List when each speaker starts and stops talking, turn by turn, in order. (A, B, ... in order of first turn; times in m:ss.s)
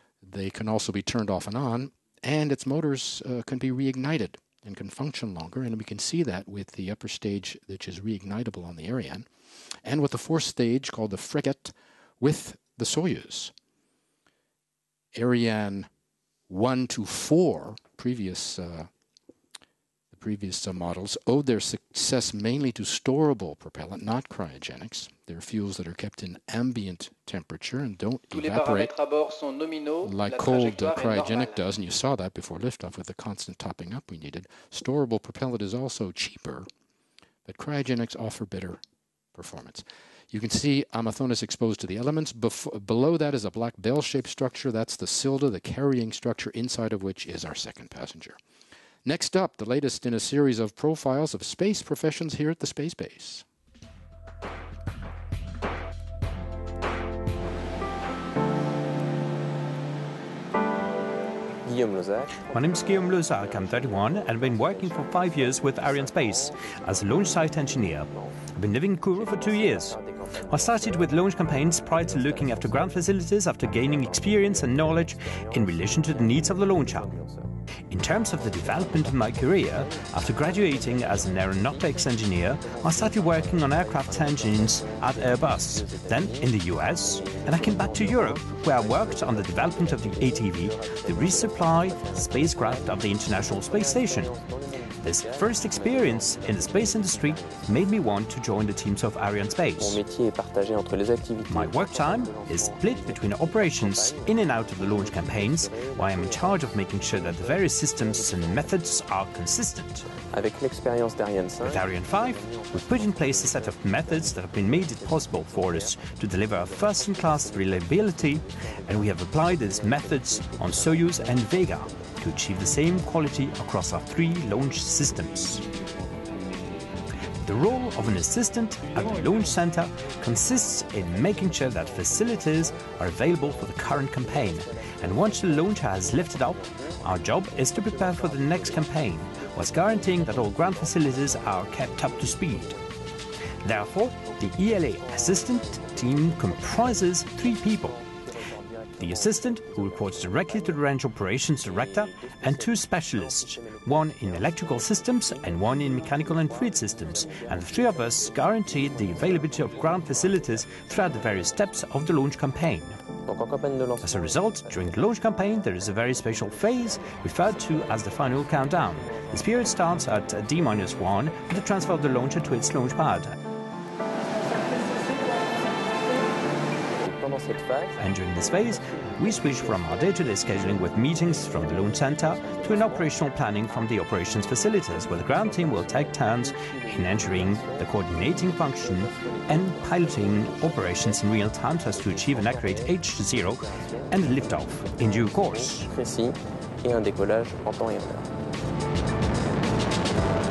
0:00.2-0:09.3 A
0:09.8-0:13.5 A
0:15.1-0:15.9 A
0:16.5-0:18.9 A
0:20.1-0:28.9 A
0:28.3-0:31.6 B
0:30.0-0:36.7 A
0:37.4-0:38.8 A
0:39.3-0:48.4 A
0:49.0-0:53.4 A
1:01.6-1:17.5 C
1:02.5-1:10.0 D
1:10.5-1:17.1 D
1:17.9-1:34.3 D
1:18.1-1:38.4 C
1:35.0-1:40.0 D
1:39.5-1:49.0 C
1:41.5-1:50.1 D
1:50.2-2:05.6 C
1:51.6-2:05.6 D
2:07.4-2:22.8 D
2:10.6-2:23.0 C
2:23.6-2:28.0 D
2:23.9-2:42.2 C
2:29.0-2:43.0 D
2:43.0-2:52.8 C
2:44.0-2:53.3 D
2:56.9-3:18.3 C
2:58.0-3:15.9 D